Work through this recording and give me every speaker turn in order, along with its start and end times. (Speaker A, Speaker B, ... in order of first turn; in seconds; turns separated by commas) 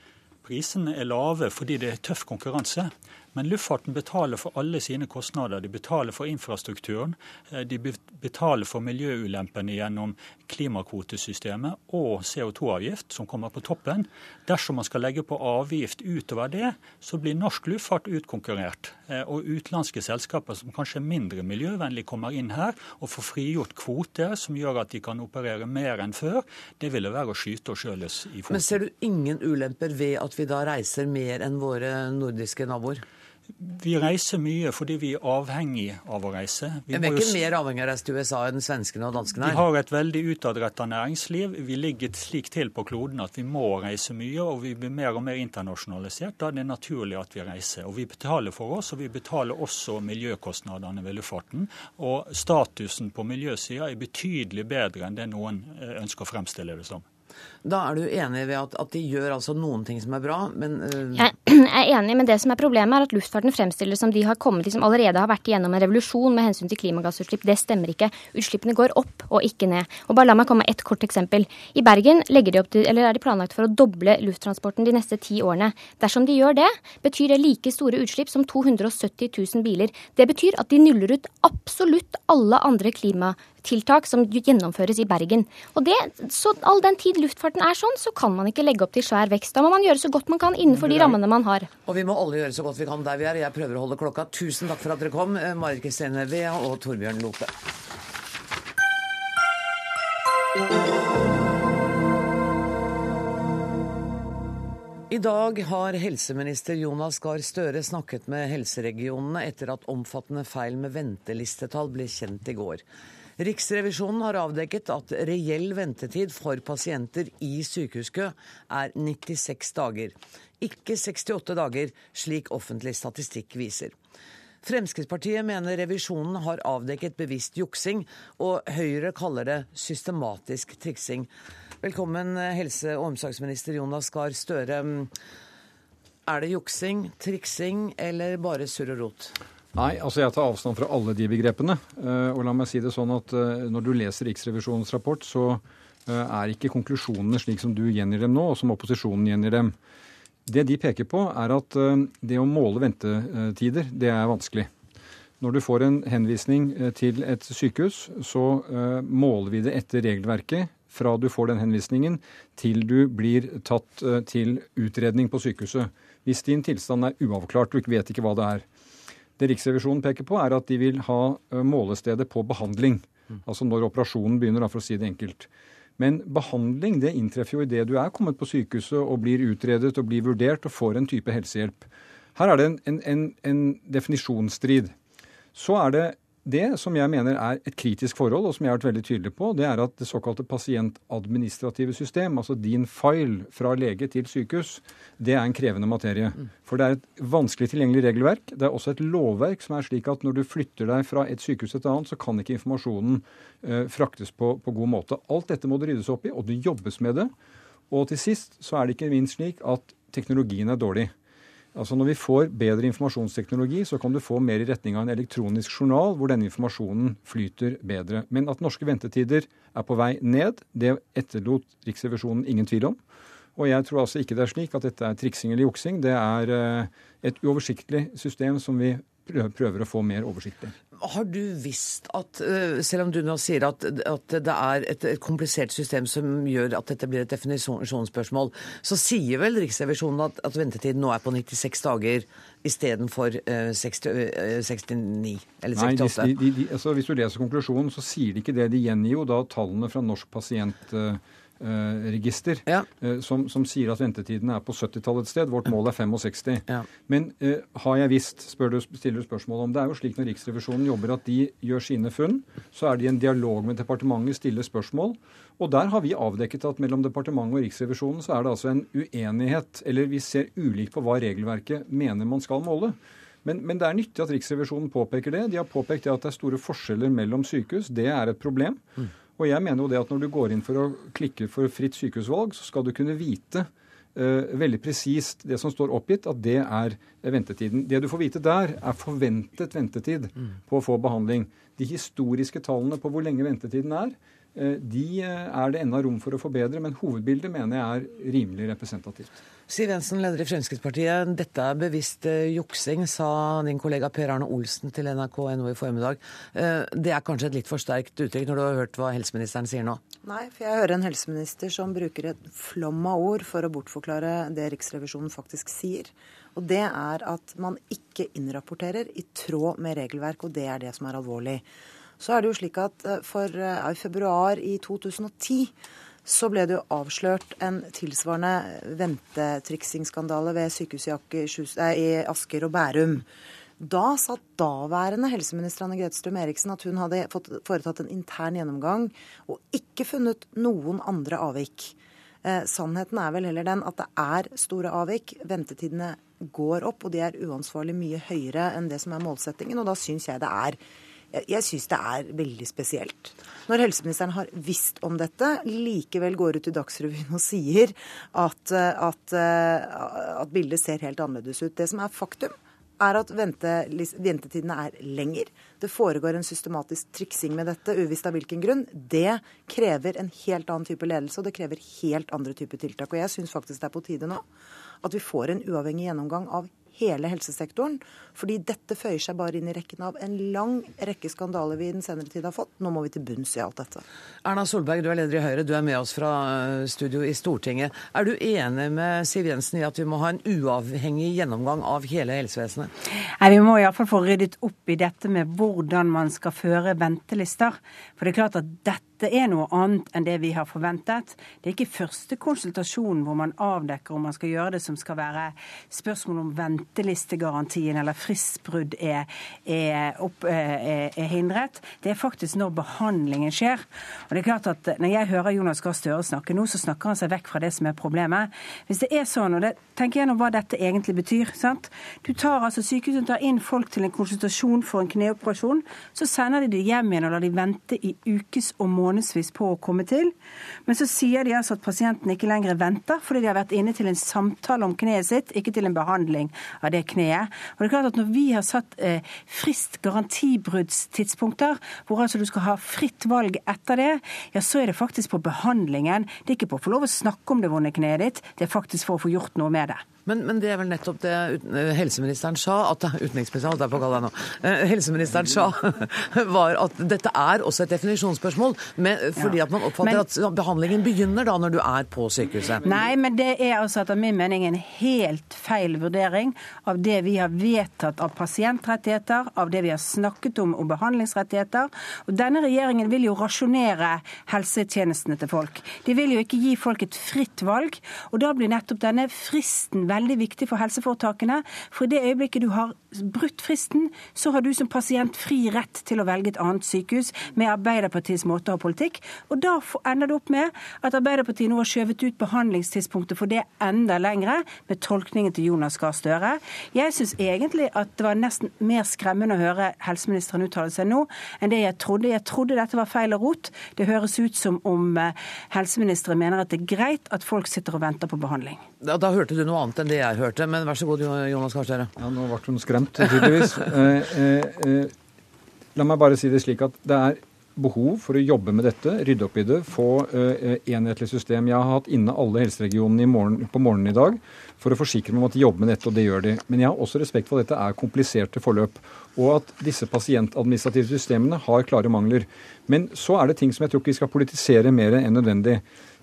Speaker A: 0.4-28.8, Speaker B: 28.5-33.0, Speaker A: 33.6-37.4, Speaker B: 36.9-39.6, Speaker A: 39.4-57.0, Speaker B: 57.6-61.3, Speaker C: 61.2-91.7, Speaker B: 90.8-91.2, Speaker B: 91.9-97.5, Speaker B: 105.1-112.8, Speaker B: 113.4-124.0, Speaker B: 124.6-131.3, Speaker B: 131.8-135.1, Speaker B: 136.3-139.3, Speaker D: 139.8-149.7, Speaker D: 150.5-154.7, Speaker D: 155.4-168.7, Speaker D: 169.4-184.9, Speaker D: 185.6-207.3, Speaker D: 207.9-211.1, Speaker D: 211.8-223.0, Speaker D: 223.6-230.7, Speaker B: 231.0-246.3, Speaker D: 245.8-278.9, Speaker D: 279.4-299.3, Speaker B: 299.7-310.0, Speaker E: 310.2-321.7, Speaker E: 322.2-325.7, Speaker E: 326.2-333.3, Speaker E: 333.8-350.8, Speaker E: 351.3-374.5, Speaker E: 375.0-384.0, Speaker B: 384.4-392.9, Speaker F: 393.4-430.3, Speaker F: 430.9-450.0, Speaker B: 450.3-463.0, Speaker F: 459.4-460.2, Speaker F: 462.9-508.8, Speaker B: 509.0-512.1, Speaker D: 512.2-515.1, Speaker D: 516.0-535.8